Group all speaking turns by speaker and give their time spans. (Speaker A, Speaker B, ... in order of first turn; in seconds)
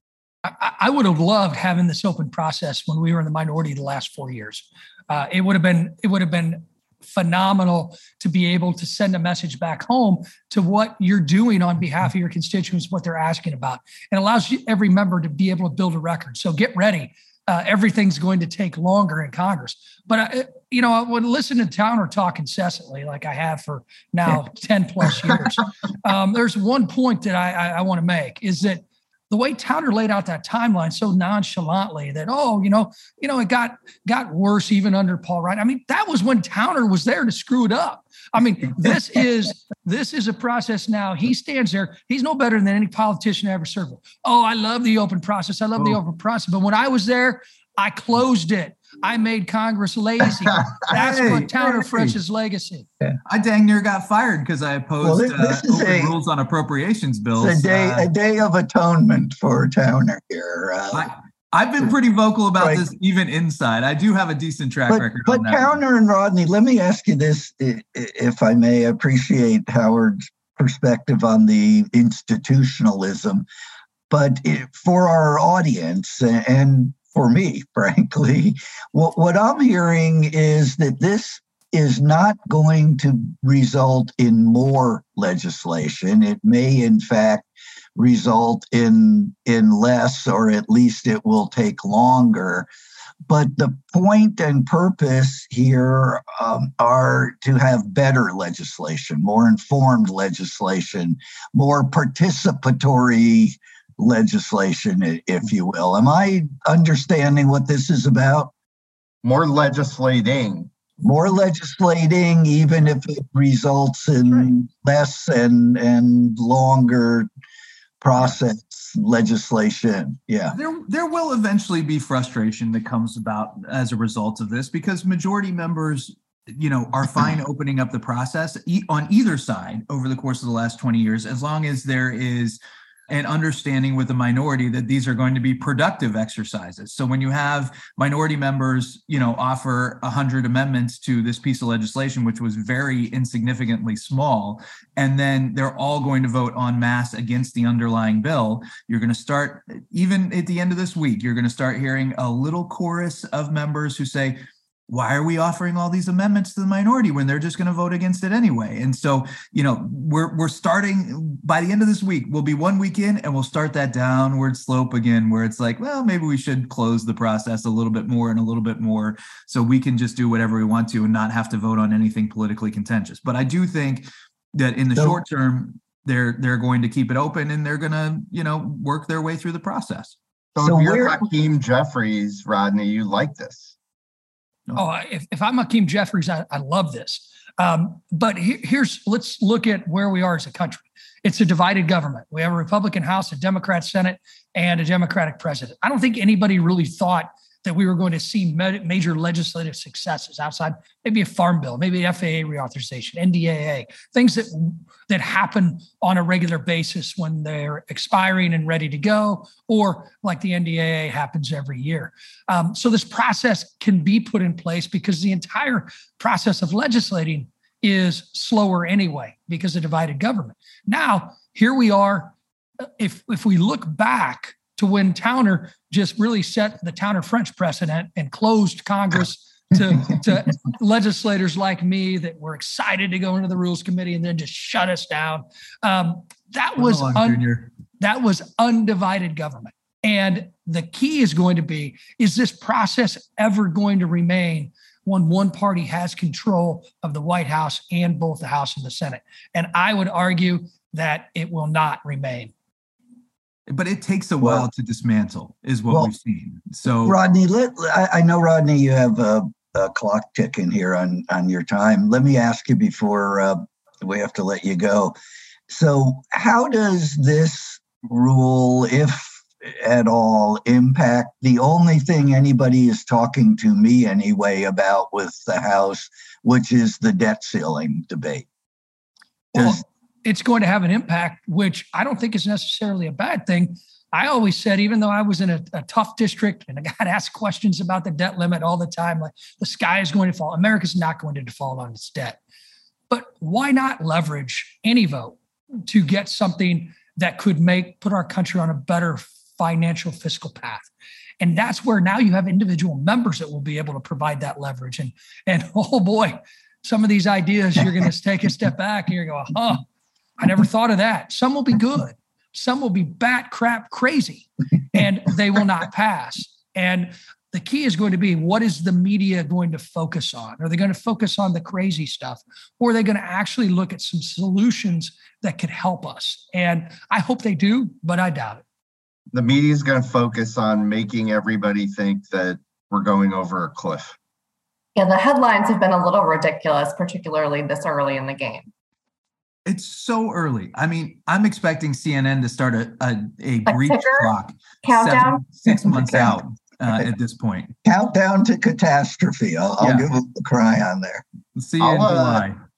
Speaker A: 0.5-52.9, 184.7-222.3, 223.0-237.4, 238.0-252.5, 279.5-292.4, 293.1-309.8, 310.4-328.6
Speaker B: 50.9-52.1, 53.2-58.1, 60.9-65.8, 120.5-180.1, 236.8-237.7, 253.7-257.2, 339.6-347.7, 349.8-350.1, 351.6-352.6
Speaker C: 55.0-56.1, 57.4-61.1, 62.6-62.9, 64.9-73.5, 74.1-92.7, 93.3-108.5, 111.0-117.3, 118.0-120.5, 174.9-175.2, 180.6-181.2, 254.4-254.7, 257.1-265.1, 265.7-278.4, 279.5-279.8, 345.7-346.4, 347.8-351.2
Speaker D: 109.2-110.7, 180.5-183.7, 329.3-334.1, 351.8-352.4
Speaker E: 334.9-338.7, 343.6-344.3, 344.8-345.4